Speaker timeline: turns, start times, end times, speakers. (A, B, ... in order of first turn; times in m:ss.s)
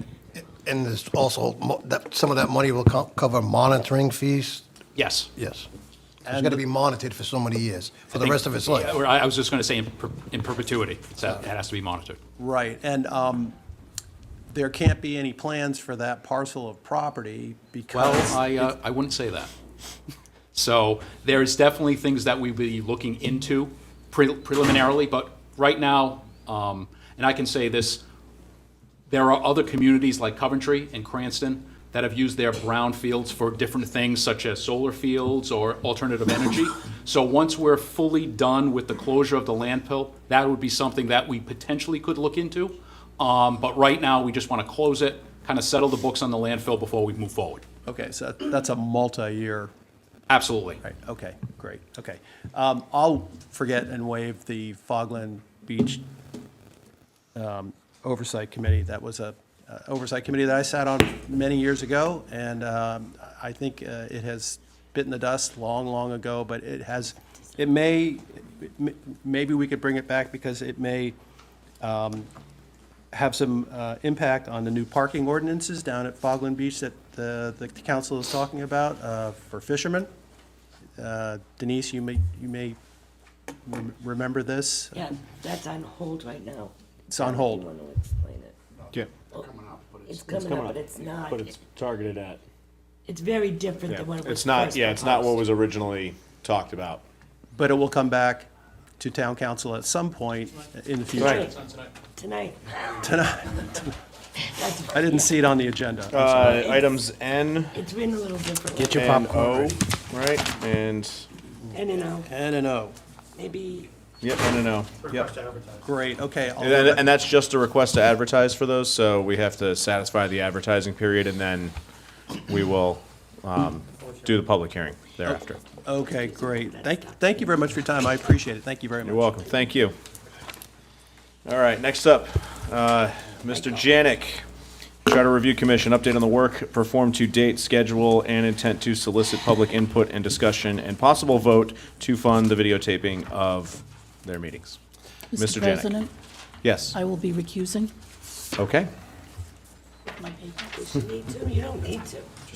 0:00.5-0:04.6 A
0:04.9-0:05.3 B
0:05.4-0:05.7 A
0:06.2-0:06.6 C
0:06.3-0:08.9 A
0:08.1-0:12.2 B
0:12.4-0:13.5 C
0:14.5-0:18.7 C
0:17.9-0:19.5 B
0:20.5-0:28.0 B
0:29.1-0:47.6 B
0:47.8-0:49.7 C
0:50.3-0:50.8 B
0:50.8-0:56.0 C
0:57.3-1:11.2 C
1:11.8-1:12.3 C
1:13.1-1:20.1 C
1:21.0-1:22.8 C
1:23.6-1:25.0 C
1:24.9-1:28.6 D
1:27.1-1:27.6 C
1:30.0-1:31.5 D
1:31.3-1:32.4 E
1:33.0-1:35.3 D
1:33.9-1:37.0 E
1:37.5-1:38.5 C
1:39.0-1:41.6 C
1:41.2-1:43.1 D
1:43.0-1:43.9 C
1:44.4-1:45.4 D
1:44.9-1:46.7 C
1:46.1-1:47.8 E
1:46.4-1:46.9 D
1:47.7-1:49.2 D
1:48.8-1:51.3 E
1:48.9-1:49.7 C
1:51.7-1:52.3 D
1:52.3-1:52.9 C
1:53.3-1:53.9 D
1:54.2-1:55.4 E
1:55.8-1:57.1 C
1:56.6-2:01.7 E
2:02.4-2:05.6 E
2:05.3-2:09.4 C
2:06.1-2:07.0 D
2:09.0-2:09.9 E
2:11.4-2:14.4 E
2:15.0-2:24.8 E
2:25.3-2:26.1 F
2:25.4-2:25.9 E
2:26.6-2:26.9 E
2:26.9-2:27.9 F
2:28.6-2:28.9 E
2:30.2-2:30.7 F
2:30.8-2:32.3 D